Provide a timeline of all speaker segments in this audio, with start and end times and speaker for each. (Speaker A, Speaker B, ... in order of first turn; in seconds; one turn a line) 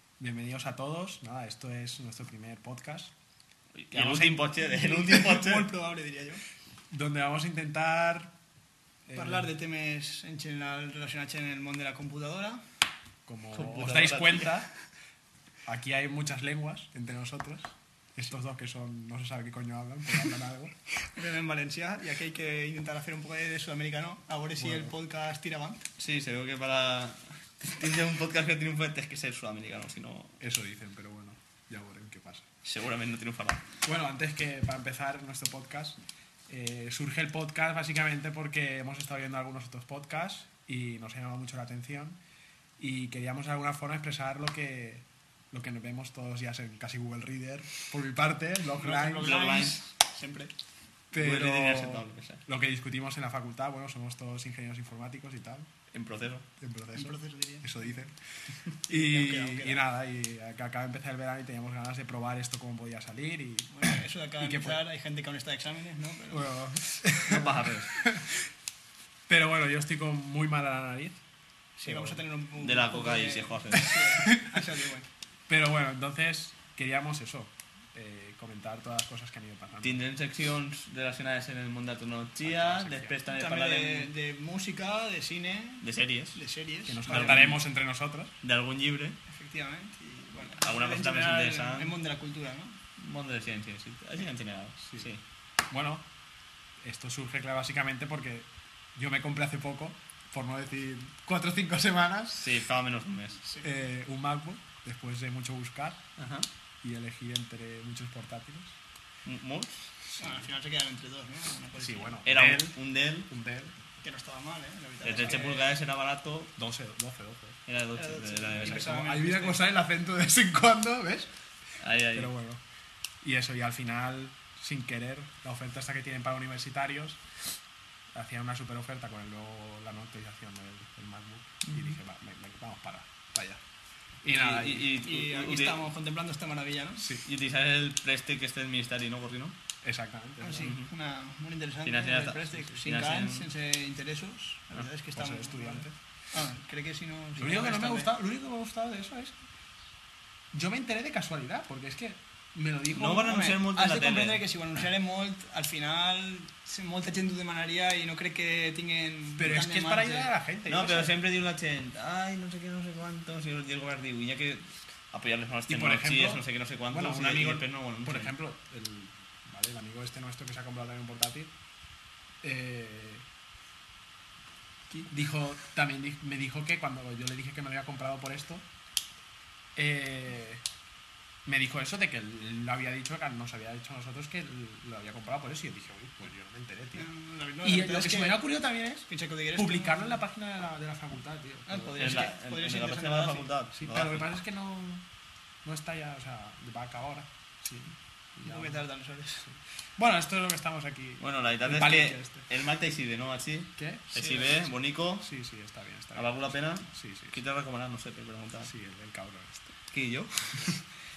Speaker A: 0.2-3.1
Speaker B: 3.8-5.7
Speaker A: 3.9-4.5
Speaker C: 4.5-6.4
Speaker A: 6.9-8.3
Speaker A: 9.1-9.5
Speaker C: 9.1-12.6
Speaker A: 13.2-14.7
Speaker B: 13.5-14.6
Speaker A: 15.7-20.8
Speaker C: 21.0-25.9
Speaker A: 24.6-24.9
Speaker B: 26.0-30.4
Speaker A: 30.4-32.5
Speaker B: 32.6-33.7
Speaker A: 33.8-42.2
Speaker A: 42.8-49.4
Speaker C: 48.7-50.5
Speaker B: 49.0-49.8
Speaker A: 51.1-55.7
Speaker B: 51.1-52.4
Speaker B: 55.9-56.5
Speaker A: 56.6-58.1
Speaker C: 56.9-58.0
Speaker A: 58.8-64.8
Speaker C: 58.9-59.8
Speaker C: 63.7-66.5
Speaker A: 66.3-68.5
Speaker B: 67.3-67.9
Speaker A: 69.3-71.2
Speaker C: 71.8-75.1
Speaker A: 71.9-72.2
Speaker B: 72.6-74.0
Speaker A: 73.7-74.6
Speaker A: 75.5-80.0
Speaker B: 79.8-84.1
Speaker A: 82.4-83.2
Speaker C: 83.3-87.4
Speaker B: 85.8-86.4
Speaker A: 86.9-88.4
Speaker B: 87.1-87.6
Speaker B: 88.4-89.2
Speaker C: 89.2-92.8
Speaker B: 90.5-91.9
Speaker B: 93.0-95.2
Speaker A: 94.8-95.1
Speaker A: 95.7-96.1
Speaker A: 96.8-102.6
Speaker B: 102.4-103.4
Speaker C: 103.4-103.7
Speaker A: 103.6-106.0
Speaker B: 106.2-106.5
Speaker A: 106.8-108.8
Speaker B: 109.2-109.9
Speaker A: 110.2-110.5
Speaker C: 110.2-112.2
Speaker A: 111.8-113.8
Speaker B: 112.2-113.3
Speaker C: 114.0-115.7
Speaker B: 115.0-116.5
Speaker A: 115.1-115.5
Speaker A: 116.5-117.6
Speaker B: 117.7-119.0
Speaker C: 117.9-119.6
Speaker A: 118.6-121.3
Speaker B: 121.8-122.3
Speaker A: 122.1-122.6
Speaker A: 123.2-127.2
Speaker A: 128.1-133.6
Speaker A: 134.2-135.0
Speaker B: 134.3-135.8
Speaker C: 134.9-137.0
Speaker A: 137.0-137.3
Speaker B: 137.2-139.6
Speaker A: 139.8-140.7
Speaker C: 140.4-148.1
Speaker B: 140.6-140.9
Speaker B: 141.8-143.5
Speaker A: 145.1-145.9
Speaker A: 147.3-149.3
Speaker A: 150.5-153.4
Speaker C: 152.9-160.3
Speaker B: 152.9-154.4
Speaker A: 159.4-161.1
Speaker B: 160.7-168.3
Speaker A: 165.7-171.5
Speaker A: 172.4-173.2
Speaker A: 175.1-178.7
Speaker A: 179.8-180.6
Speaker A: 181.4-187.1
Speaker C: 186.9-190.2
Speaker A: 187.6-192.3
Speaker C: 191.7-193.5
Speaker B: 192.0-194.3
Speaker A: 193.7-195.1
Speaker A: 195.6-198.8
Speaker C: 198.4-199.5
Speaker A: 199.5-202.5
Speaker B: 201.2-205.3
Speaker A: 203.8-204.1
Speaker C: 204.1-204.5
Speaker A: 205.2-206.4
Speaker B: 206.2-208.7
Speaker A: 206.9-207.4
Speaker A: 208.6-209.8
Speaker B: 209.9-210.8